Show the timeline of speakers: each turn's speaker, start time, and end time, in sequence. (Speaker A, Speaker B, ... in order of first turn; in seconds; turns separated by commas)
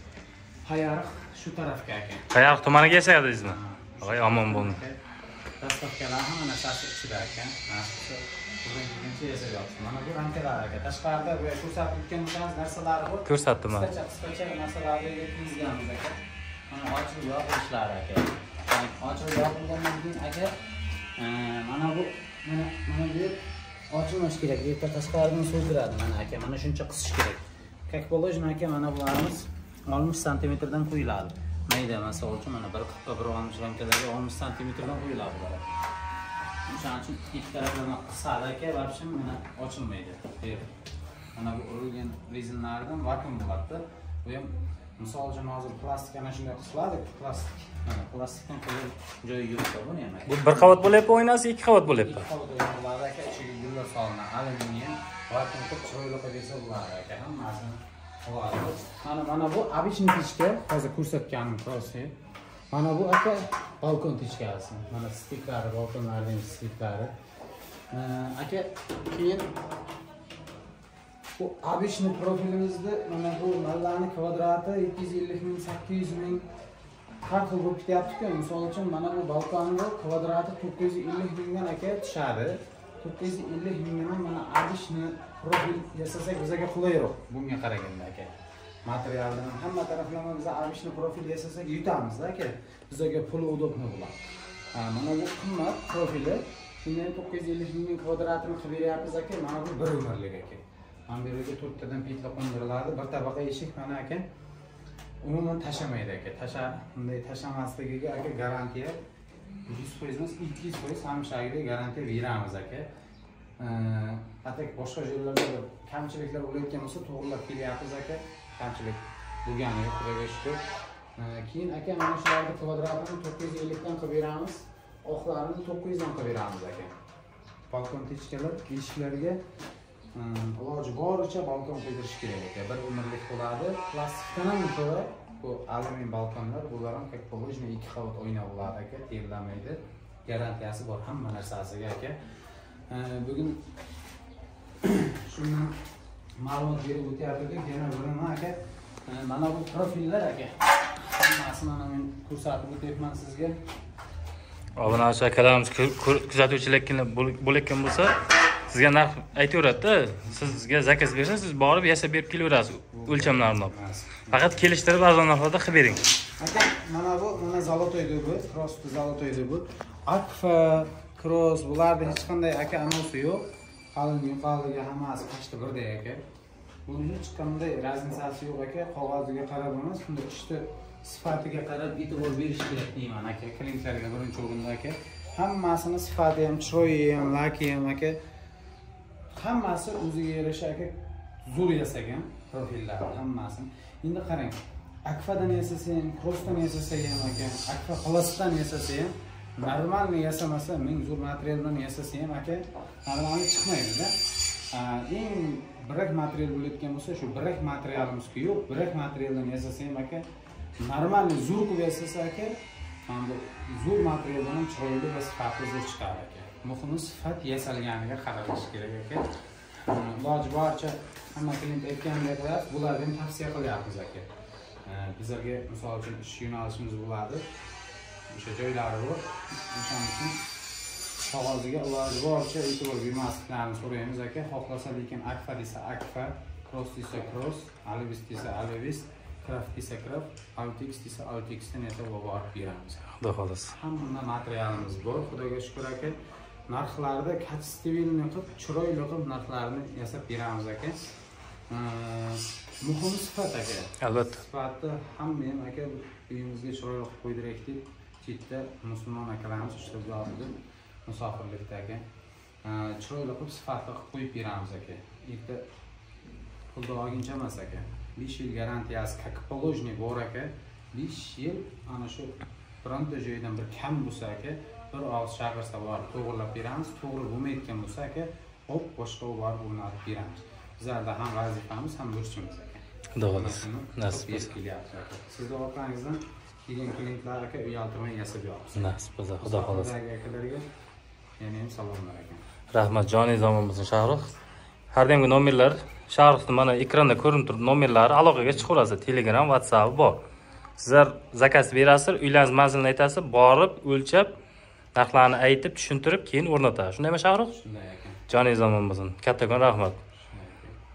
Speaker A: 0.6-2.3, Speaker B: 2.3-4.8, Speaker A: 3.4-5.0, Speaker A: 5.6-16.2, Speaker B: 13.2-13.9, Speaker A: 16.7-20.5, Speaker A: 21.2-35.7, Speaker A: 36.6-40.7, Speaker A: 41.3-51.0, Speaker B: 50.3-52.2, Speaker A: 52.0-62.1, Speaker A: 62.7-67.1, Speaker A: 67.9-69.5, Speaker A: 71.4-76.5, Speaker A: 77.2-88.3, Speaker A: 88.8-94.2, Speaker A: 94.7-104.2, Speaker A: 105.2-109.0, Speaker A: 109.7-112.9, Speaker A: 113.6-120.6, Speaker A: 121.2-126.9, Speaker A: 127.7-129.4, Speaker A: 130.1-142.2, Speaker A: 142.9-143.6, Speaker A: 144.8-145.8, Speaker A: 146.4-153.6, Speaker B: 154.8-158.1, Speaker B: 158.7-163.7, Speaker A: 162.9-164.7, Speaker B: 164.3-166.1, Speaker A: 166.4-176.2, Speaker A: 176.9-188.2, Speaker A: 189.3-210.2, Speaker A: 210.8-224.3, Speaker A: 224.8-227.5, Speaker A: 228.3-230.4, Speaker A: 231.2-243.2, Speaker B: 243.2-243.7, Speaker A: 243.7-246.2, Speaker A: 246.7-251.1, Speaker A: 251.7-262.0, Speaker B: 254.0-254.4, Speaker A: 262.6-265.6, Speaker A: 266.7-290.6, Speaker B: 283.2-284.5, Speaker B: 288.8-289.9, Speaker A: 291.4-292.4, Speaker B: 292.7-294.3, Speaker B: 294.9-300.2, Speaker B: 300.8-304.3, Speaker B: 304.9-307.6, Speaker A: 307.5-308.2, Speaker B: 308.3-310.0, Speaker A: 310.1-310.8